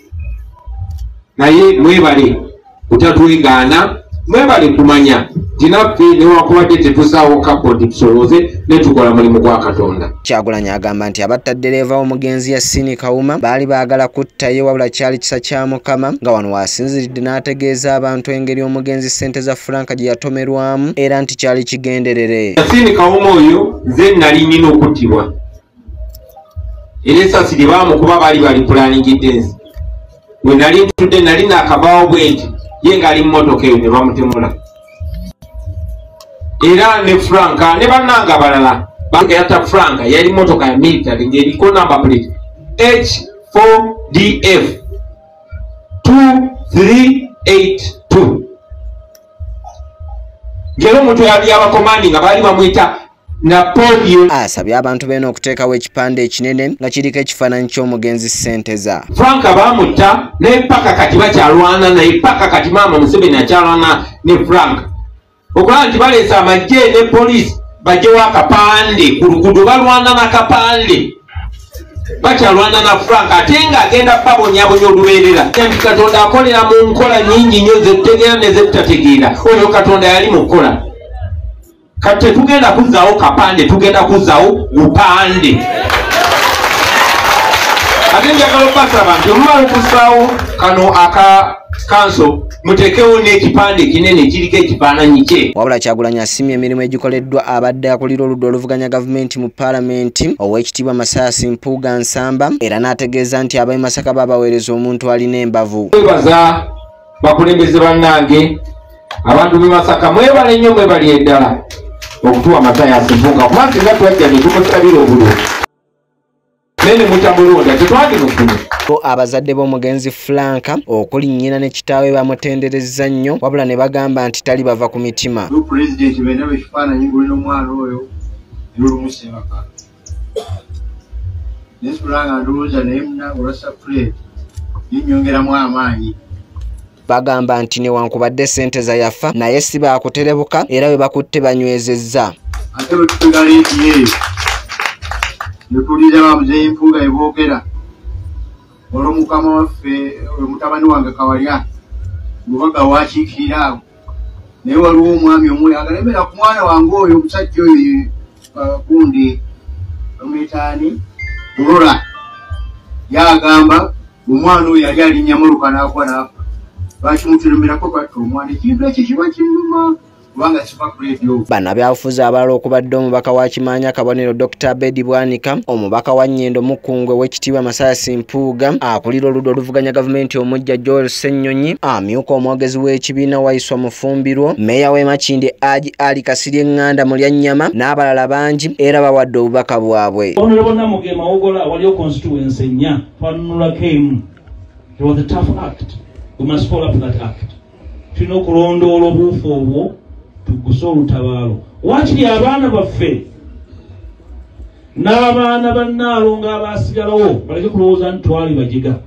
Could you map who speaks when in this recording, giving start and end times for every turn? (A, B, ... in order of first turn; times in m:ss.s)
0:01.4-0:10.1 A
0:10.2-0:22.6 B
0:22.6-0:25.3 A
0:27.0-0:29.5 A
0:30.4-0:34.5 A
0:36.6-0:44.8 A
0:46.0-0:48.5 A
0:50.8-0:54.3 A
0:54.3-0:59.1 B
0:59.1-1:04.9 A
1:05.5-1:11.1 A
1:12.2-1:20.8 A
1:22.0-1:25.6 A
1:28.1-1:35.5 A
1:35.5-1:45.9 B
1:45.9-1:46.7 A
1:47.2-1:48.6 A
1:49.2-1:51.6 A
1:52.2-1:55.4 A
1:56.8-1:58.6 A
1:58.9-2:05.5 B
2:05.5-2:08.1 C
2:08.7-2:09.6 C
2:11.8-2:14.1 C
2:14.9-2:16.2 C
2:17.1-2:22.3 B
2:22.7-2:24.1 C
2:25.7-2:27.6 C
2:28.9-2:31.6 C
2:32.4-2:33.8 C
2:34.6-2:39.4 C
2:40.2-2:41.0 C
2:41.6-2:42.0 C
2:43.1-2:46.3 C
2:47.0-2:51.4 C
2:51.5-3:10.4 B
3:10.4-3:14.2 D
3:15.0-3:17.5 D
3:18.1-3:23.2 D
3:25.0-3:29.0 D